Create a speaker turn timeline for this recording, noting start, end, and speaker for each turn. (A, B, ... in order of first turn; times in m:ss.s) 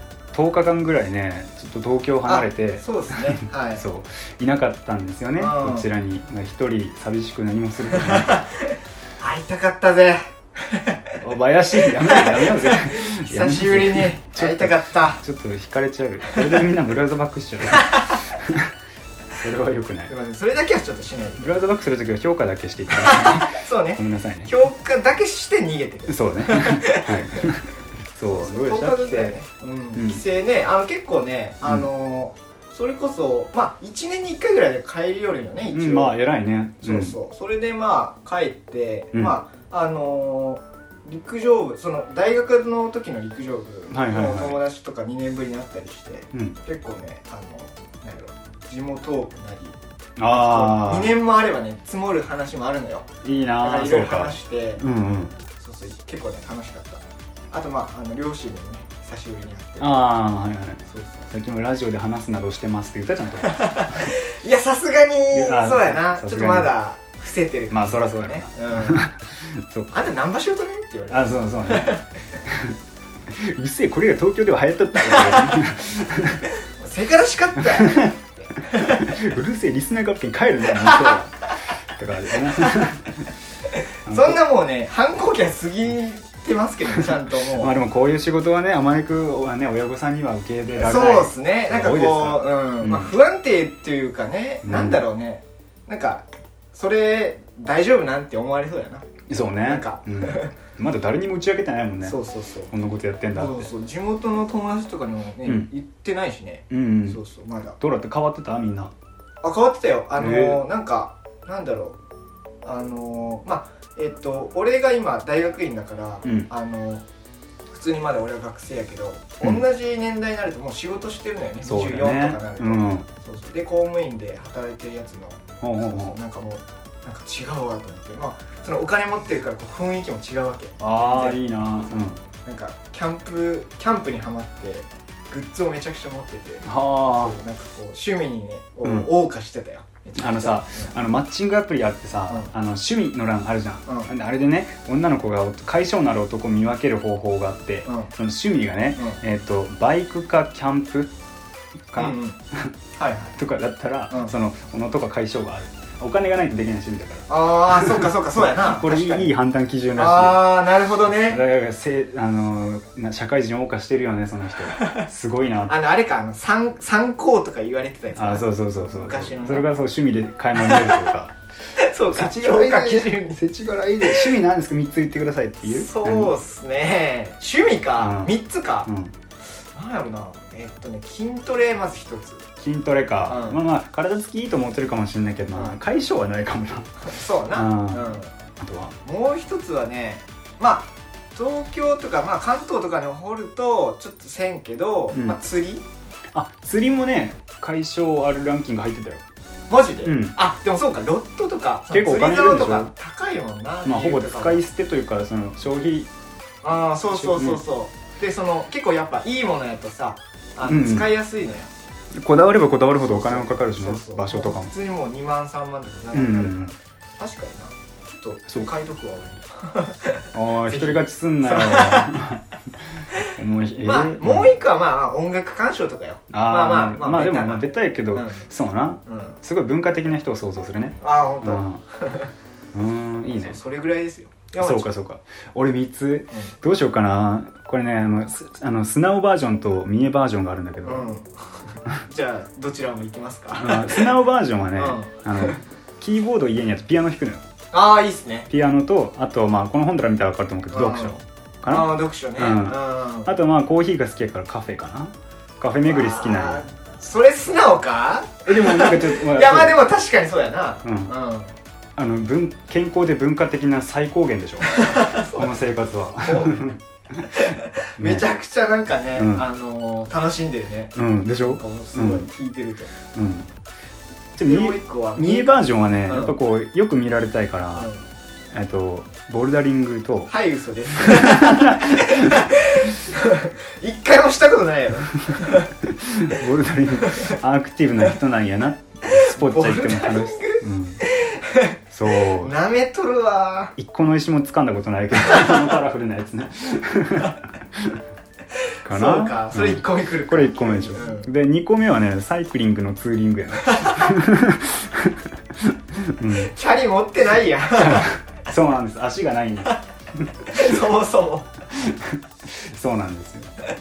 0:00.3-0:08.4 A
0:02.3-0:03.8 B
0:05.4-0:05.9 B
0:07.9-0:15.2 B
0:11.2-0:18.7 A
0:17.7-0:18.2 B
0:19.4-0:20.1 A
0:20.1-0:21.6 B
0:21.4-0:24.5 A
0:22.9-0:27.5 B
0:26.1-0:29.4 A
0:28.3-0:36.2 B
0:30.0-0:30.2 A
0:35.7-0:37.2 A
0:36.8-0:49.8 B
0:43.9-0:44.6 A
0:50.2-0:51.2 A
0:50.3-0:53.1 B
0:53.2-0:55.3 A
0:53.6-0:54.8 B
0:55.6-1:00.0 B
0:59.8-1:04.1 A
1:00.9-1:01.3 B
1:03.4-1:09.0 B
1:05.3-1:06.7 A
1:07.7-1:09.9 A
1:09.9-1:12.1 B
1:11.1-1:12.8 A
1:13.3-1:16.4 A
1:15.0-1:15.6 B
1:16.6-1:19.2 B
1:17.6-1:18.1 A
1:18.7-1:23.1 A
1:20.7-1:21.2 B
1:22.3-1:22.9 B
1:24.1-1:27.8 B
1:24.1-1:24.4 A
1:27.0-1:33.1 A
1:30.8-1:40.5 B
1:34.6-1:35.0 A
1:39.3-1:42.2 A
1:42.0-1:42.7 B
1:42.7-1:43.7 A
1:43.3-1:47.8 B
1:46.7-1:47.2 A
1:47.8-1:48.9 A
1:49.4-1:52.0 B
1:50.2-1:50.6 A
1:52.6-1:57.0 B
1:57.7-2:11.4 B
2:01.6-2:03.1 A
2:05.6-2:06.2 A
2:10.8-2:12.2 A
2:12.4-2:20.9 B
2:16.6-2:17.4 A
2:20.2-2:31.1 A
2:27.8-2:28.1 B
2:31.9-2:32.7 A
2:32.0-2:32.4 B
2:33.0-2:33.4 B
2:33.4-2:40.5 A
2:37.3-2:39.3 B
2:40.0-2:41.4 B
2:41.2-2:45.8 A
2:44.7-2:45.0 B
2:45.7-2:49.7 B
2:48.2-2:51.4 A
2:50.6-2:51.1 B
2:51.8-2:53.4 B
2:52.1-2:56.3 A
2:54.0-2:54.3 B
2:55.6-2:58.9 B
2:58.0-2:58.3 A
2:58.9-2:59.1 A
2:59.7-3:02.5 B
3:02.6-3:06.9 A
3:03.2-3:03.6 B
3:07.0-3:08.3 B
3:07.5-3:08.1 A
3:08.6-3:08.9 A
3:09.0-3:15.8 B
3:15.1-3:15.4 A
3:16.3-3:19.2 A
3:19.7-3:24.6 B
3:20.0-3:20.4 A
3:21.9-3:22.9 A
3:23.8-3:26.1 A
3:26.6-3:31.7 B
3:27.1-3:27.6 A
3:30.6-3:31.1 A
3:32.2-3:34.7 A
3:33.0-3:42.1 B
3:36.1-3:36.7 A
3:40.3-3:44.5 A
3:43.8-3:48.5 B
3:46.3-3:51.8 A
3:49.1-3:49.4 B
3:51.0-3:52.3 B
3:52.7-3:53.6 A
3:53.4-3:54.9 B
3:54.6-4:01.1 A
4:00.8-4:04.1 B
4:03.6-4:07.4 A
4:04.8-4:05.6 B
4:07.7-4:08.5 B
4:08.5-4:16.6 A
4:10.7-4:13.3 B
4:15.9-4:21.5 B
4:18.5-4:19.8 A
4:20.8-4:21.1 A
4:22.0-4:27.3 A
4:24.6-4:25.6 B
4:26.2-4:26.6 B
4:27.2-4:32.9 B
4:28.0-4:28.2 A
4:29.2-4:29.4 A
4:31.0-4:32.3 A
4:33.1-4:33.5 A
4:34.4-4:37.9 A
4:34.4-4:36.3 B
4:37.8-4:38.0 B
4:38.5-4:40.3 A
4:40.3-4:46.4 B
4:41.0-4:42.5 A
4:45.3-4:51.0 A
4:47.0-4:47.4 B
4:49.0-4:53.8 B
4:51.9-4:52.5 A
4:53.8-4:58.0 A
4:55.2-4:55.7 B
4:58.6-5:01.3 B
4:58.8-5:06.5 A
5:03.6-5:04.1 B
5:06.3-5:08.1 B
5:07.8-5:10.9 A
5:10.5-5:11.5 B
5:11.7-5:13.5 A